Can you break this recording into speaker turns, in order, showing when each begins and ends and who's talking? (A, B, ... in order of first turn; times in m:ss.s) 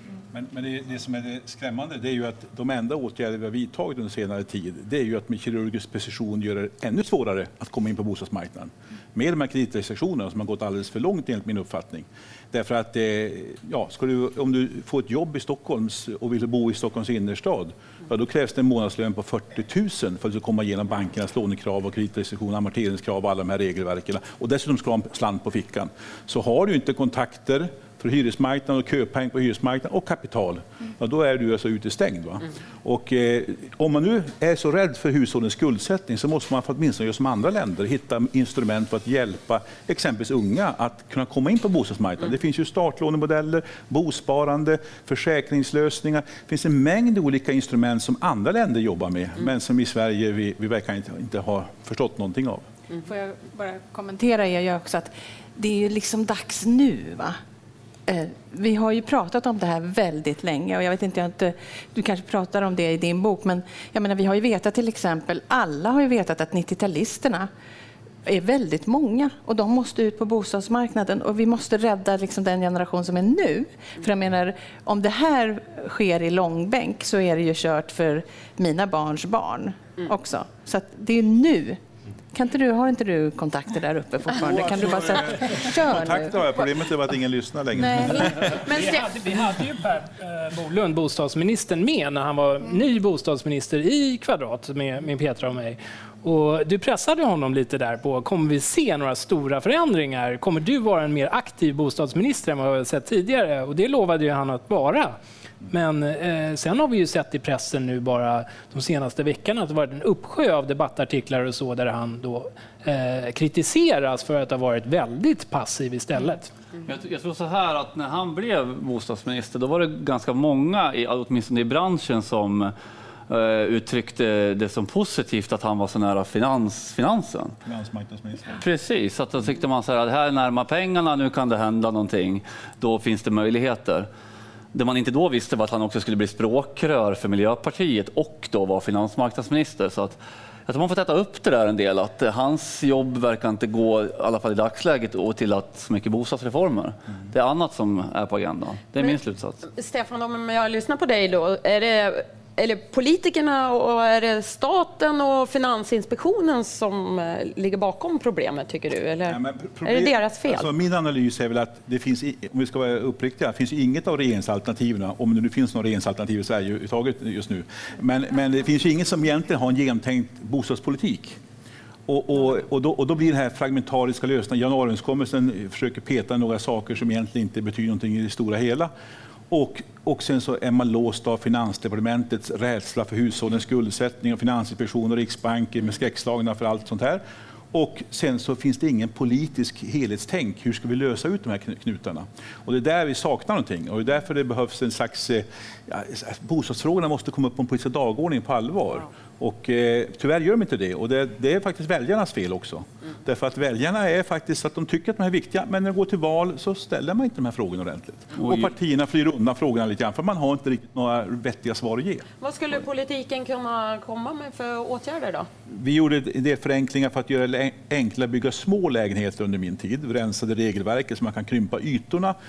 0:00.3-0:52.7 A
0:53.0-0:57.4 B
0:58.1-1:07.5 B
1:08.2-1:21.8 B
1:22.3-1:26.5 B
1:24.4-1:28.6 A
1:27.8-1:28.3 B
1:28.4-1:45.2 C
1:28.6-1:29.1 D
1:45.7-1:56.5 C
1:56.9-2:02.7 E
2:03.3-2:07.6 E
2:07.6-2:08.6 A
2:08.6-2:14.1 E
2:14.7-2:29.6 E
2:29.0-2:40.7 D
2:39.3-2:51.4 A
2:52.1-2:58.9 A
2:59.5-3:32.3 A
3:28.4-3:28.7 E
3:32.4-3:35.5 D
3:35.7-3:42.4 A